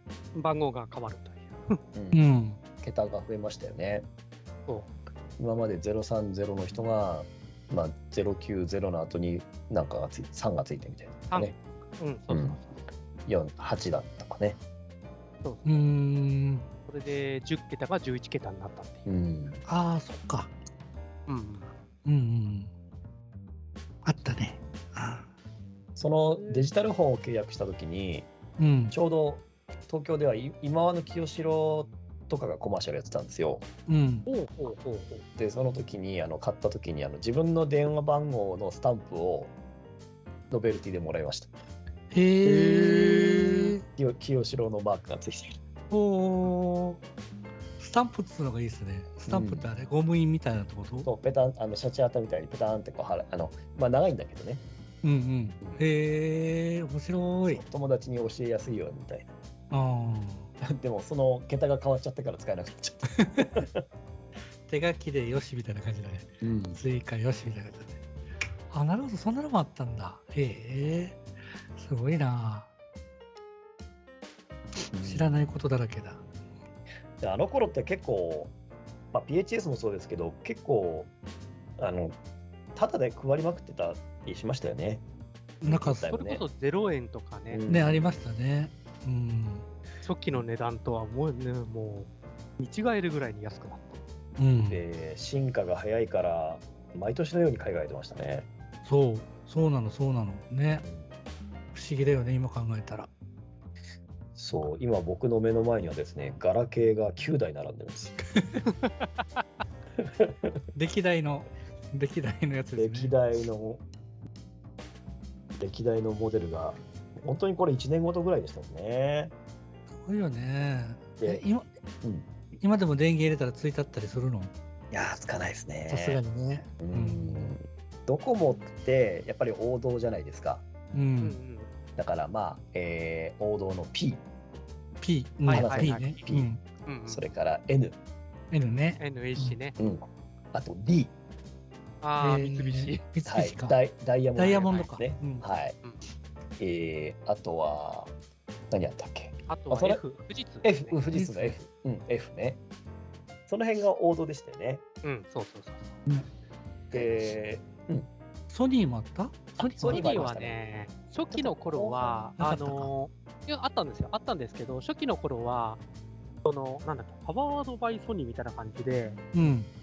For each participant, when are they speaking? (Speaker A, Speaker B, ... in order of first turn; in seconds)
Speaker A: 0.3-1.8, 11.3-12.8, 15.4-15.8, 16.9-19.1, 21.3-21.7, 26.4-26.7, 34.2-35.2, 85.6-87.6, 90.0-93.9, 108.6-109.4, 131.2-131.7, 135.4-136.1, 136.8-137.3, 139.0-139.8, 142.0-143.0, 144.5-144.9, 149.5-151.0, 155.0-155.9, 159.6-165.8, 166.4-169.4
Speaker B: 1.9-2.2, 2.8-4.1, 5.4-11.6, 12.3-12.6, 13.2-14.6, 19.1-19.6, 25.9-28.3, 28.9-33.6, 35.4-39.5, 40.5-41.5, 42.5-45.6, 49.2-49.7, 51.0-54.6, 57.4-59.3, 60.6-63.8, 66.4-66.8, 74.9-75.5, 77.2-78.5, 79.1-81.1, 81.8-82.2, 82.7-85.0, 85.6-86.4, 87.5-88.2, 94.7-98.5, 100.8-101.1, 104.3-108.2, 110.0-110.6, 112.8-113.8, 115.6-119.3, 124.9-126.2, 126.8-130.9, 132.0-134.2, 135.5-136.5, 137.1-138.0, 139.8-141.1, 143.2-145.8, 146.6-148.1, 148.7-150.0, 150.6-152.6, 153.5-154.8, 156.9-158.1, 159.6-160.6, 161.3-162.3
Speaker C: 2.1-2.6, 15.6-16.7, 19.7-20.5, 22.0-22.7, 24.0-25.3, 28.6-28.9, 33.9-34.2, 42.1-43.8, 45.9-47.0, 47.8-51.1, 55.0-57.6, 59.7-60.5, 63.2-63.6, 64.7-68.0, 68.7-71.2, 71.7-72.7, 74.8-76.2, 85.6-86.1, 87.7-89.7, 94.4-94.8, 98.8-100.8, 101.7-103.1, 110.7-113.1, 120.0-121.7, 122.6-124.5, 125.9-127.5, 130.9-131.4, 135.0-136.6, 138.5-139.6, 142.2-143.8, 144.3-145.4, 151.1-151.6, 156.9-157.4, 158.5-160.3, 162.3-162.9, 169.3-169.7